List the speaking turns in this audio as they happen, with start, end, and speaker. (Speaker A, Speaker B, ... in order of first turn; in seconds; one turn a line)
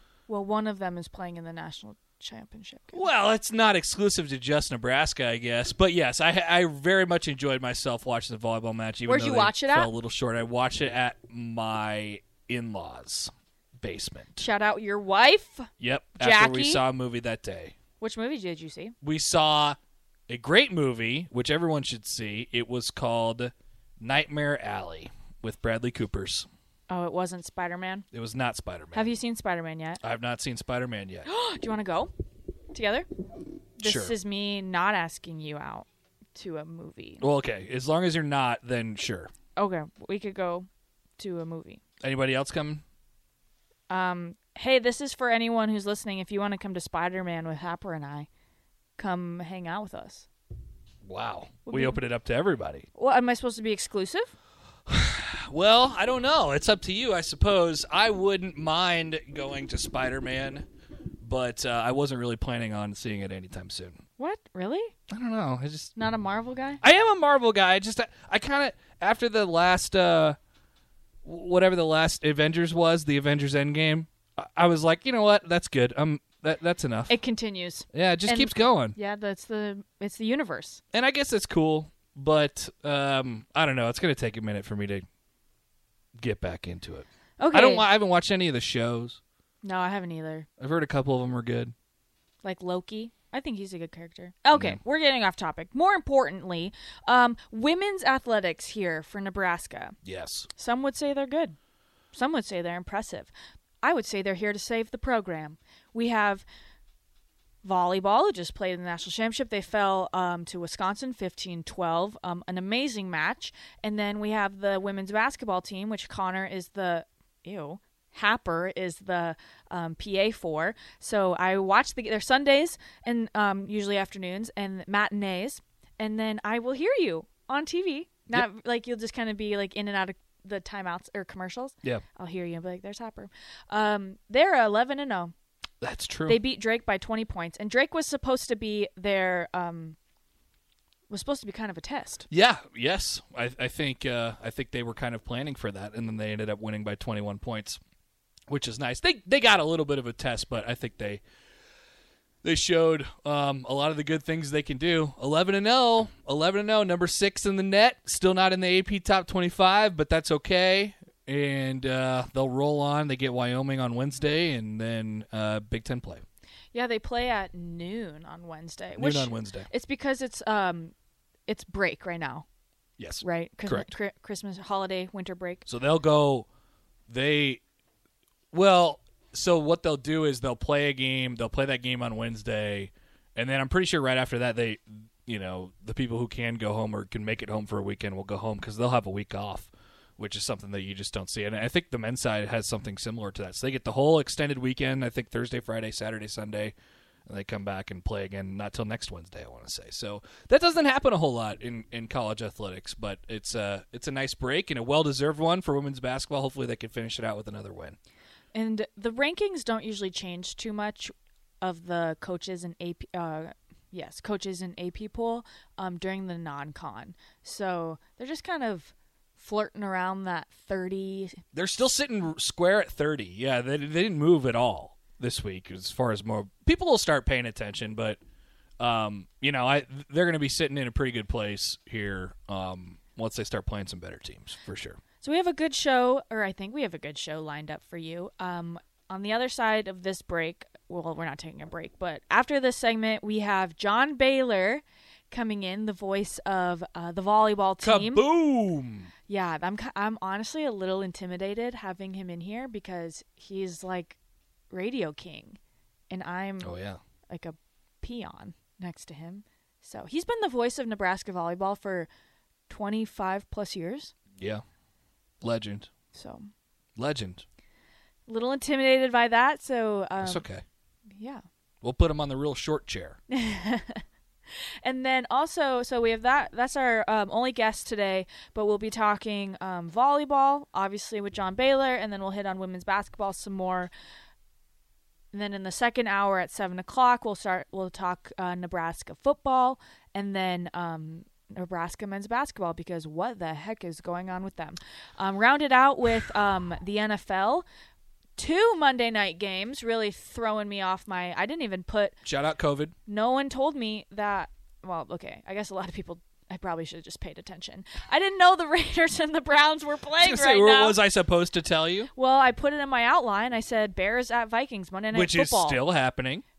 Speaker A: 0.3-3.1
Speaker B: 2.9-14.5
Speaker A: 9.0-9.9
Speaker A: 14.4-16.8
Speaker B: 15.8-17.7
Speaker A: 18.0-18.9
Speaker B: 19.0-19.8
Speaker B: 20.3-26.5
Speaker A: 26.9-28.1
Speaker B: 28.1-29.1
Speaker A: 28.9-30.0
Speaker B: 30.0-31.3
Speaker A: 31.2-32.1
Speaker A: 32.7-33.1
Speaker A: 33.8-37.2
Speaker B: 33.8-34.1
Speaker B: 37.2-39.3
Speaker A: 39.5-41.8
Speaker B: 42.0-42.8
Speaker A: 43.9-48.3
Speaker A: 49.0-50.3
Speaker B: 51.0-52.9
Speaker A: 51.6-52.0
Speaker A: 53.0-54.3
Speaker B: 54.9-60.7
Speaker B: 61.2-64.0
Speaker A: 64.2-64.9
Speaker B: 65.1-65.9
Speaker A: 66.0-66.8
Speaker B: 66.8-70.4
Speaker B: 71.2-77.1
Speaker A: 77.1-80.8
Speaker B: 77.9-79.0
Speaker B: 80.9-85.0
Speaker B: 86.2-89.2
Speaker A: 87.4-87.9
Speaker A: 89.6-90.5
Speaker B: 90.6-91.7
Speaker A: 92.4-100.0
Speaker B: 94.5-94.8
Speaker B: 100.0-100.5
Speaker A: 100.5-101.5
Speaker A: 102.1-106.4
Speaker A: 107.6-135.3
Speaker B: 135.8-136.4
Speaker A: 136.3-139.9
Speaker A: 141.1-142.3
Speaker B: 142.3-147.8
Speaker B: 148.5-151.2
Speaker B: 152.4-166.2
Speaker A: 166.7-170.9
Speaker B: 169.0-169.7
Speaker A: 171.5-172.4
Speaker B: 173.0-173.9
Speaker A: 173.2-175.6
Speaker B: 175.7-176.5
Speaker B: 177.1-177.6
Speaker B: 178.5-196.7
Speaker B: 197.2-208.0
Speaker A: 208.5-221.4
Speaker B: 221.5-228.2
Speaker B: 228.8-235.0
Speaker A: 235.2-248.2
Speaker B: 247.8-249.1
Speaker A: 249.3-254.2
Speaker A: 254.7-255.6
Speaker A: 256.1-256.8
Speaker B: 256.6-257.0
Speaker A: 257.3-262.1
Speaker A: 262.7-264.1
Speaker B: 264.4-264.6
Speaker B: 265.4-265.9
Speaker A: 266.1-266.5
Speaker B: 266.9-267.4
Speaker A: 268.3-270.4
Speaker B: 270.2-270.6
Speaker A: 271.1-271.4
Speaker B: 271.8-273.2
Speaker A: 273.3-274.0
Speaker A: 274.8-283.9
Speaker A: 285.3-297.6
Speaker A: 298.4-302.1
Speaker B: 302.2-302.9
Speaker A: 303.1-311.0
Speaker B: 310.2-312.1
Speaker A: 312.1-315.8
Speaker B: 315.1-316.4